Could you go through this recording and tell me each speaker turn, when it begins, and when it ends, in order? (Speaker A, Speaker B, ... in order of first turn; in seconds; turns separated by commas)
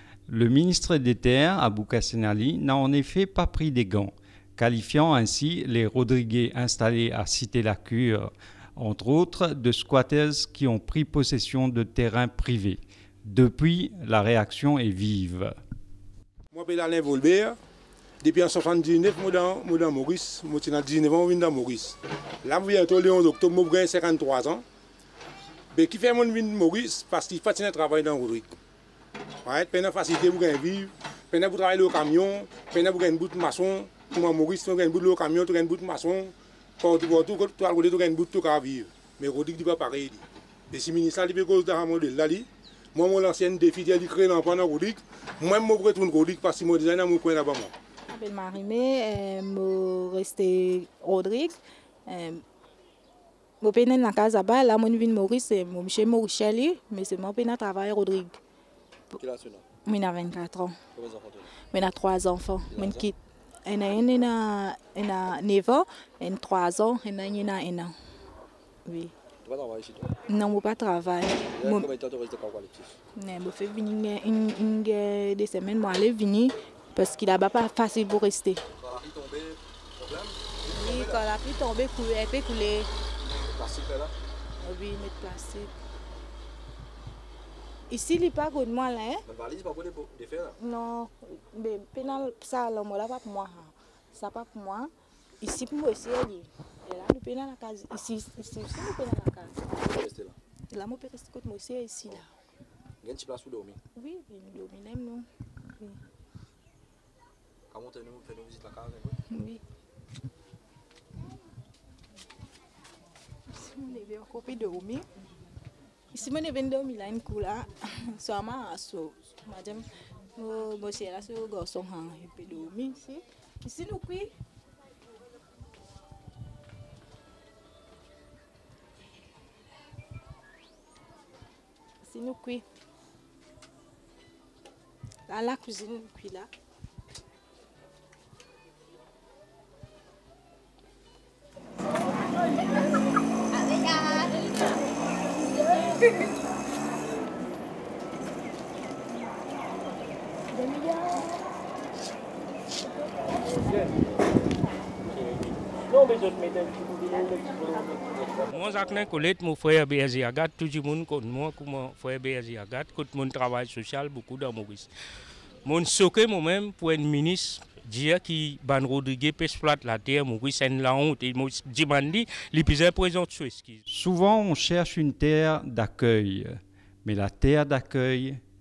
Speaker A: 0.3-15.6, Speaker B: 16.5-17.6, Speaker B: 18.2-24.6, Speaker B: 25.7-28.5, Speaker B: 29.4-47.7, Speaker C: 48.1-52.4, Speaker C: 53.6-58.4, Speaker D: 59.1-59.6, Speaker C: 59.9-60.8, Speaker D: 60.9-61.5, Speaker C: 61.7-67.9, Speaker D: 62.7-63.1, Speaker C: 68.8-69.1, Speaker D: 69.4-70.1, Speaker C: 70.3-71.9, Speaker D: 71.5-72.9, Speaker C: 73.2-78.6, Speaker D: 78.8-81.2, Speaker C: 80.7-82.9, Speaker D: 83.3-84.1, Speaker C: 84.6-85.7, Speaker C: 87.9-89.2, Speaker D: 89.2-90.6, Speaker C: 90.6-99.6, Speaker D: 99.8-100.4, Speaker C: 100.7-102.3, Speaker D: 103.0-103.8, Speaker C: 103.9-105.3, Speaker D: 107.7-109.2, Speaker C: 109.3-109.6, Speaker C: 113.5-115.1, Speaker C: 116.1-124.3, Speaker C: 132.0-132.6, Speaker C: 135.3-136.5, Speaker C: 143.9-144.2, Speaker C: 150.7-151.2, Speaker D: 156.0-158.0, Speaker E: 158.4-164.9, Speaker E: 165.6-173.8, Speaker A: 173.9-178.4